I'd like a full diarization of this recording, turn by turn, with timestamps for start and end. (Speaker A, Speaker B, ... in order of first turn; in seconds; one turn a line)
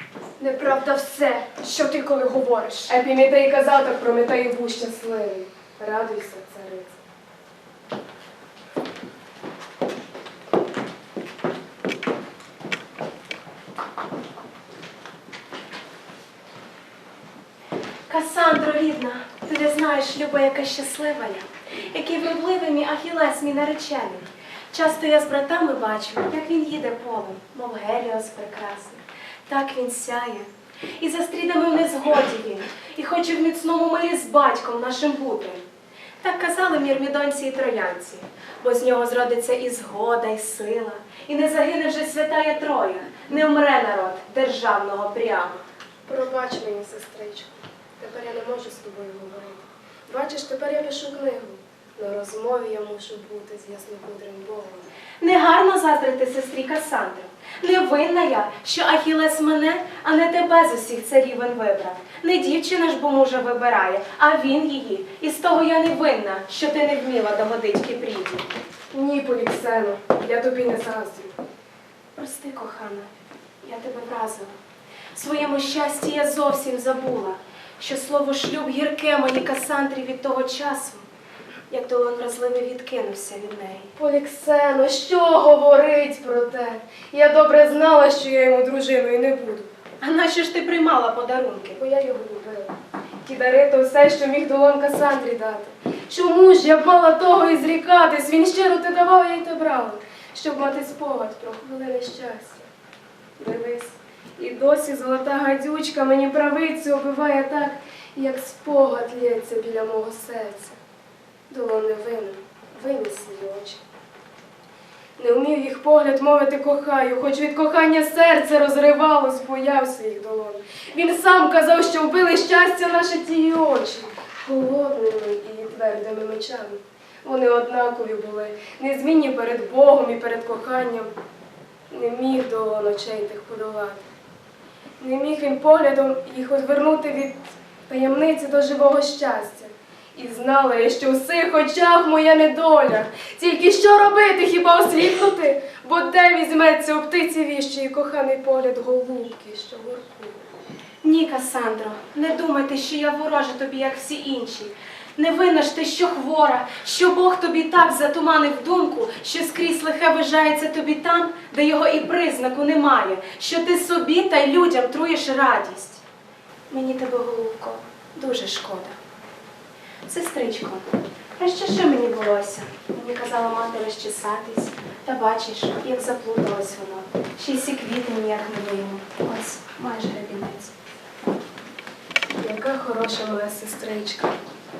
Speaker A: 0.4-3.0
Speaker B: 2.9-7.0
Speaker C: 18.1-30.5
Speaker C: 31.0-35.6
Speaker C: 36.2-45.6
Speaker B: 46.1-54.9
Speaker C: 55.2-68.5
Speaker B: 68.9-71.4
Speaker C: 72.2-73.1
Speaker C: 73.6-74.6
Speaker C: 75.1-81.1
Speaker C: 81.7-83.9
Speaker B: 84.0-89.7
Speaker C: 90.0-91.8
Speaker B: 91.7-102.7
Speaker B: 103.4-110.8
Speaker B: 111.5-113.8
Speaker B: 115.2-131.1
Speaker B: 131.9-134.1
Speaker B: 135.0-150.4
Speaker C: 151.0-166.0
Speaker C: 166.7-169.0
Speaker C: 170.1-180.7
Speaker B: 182.4-184.4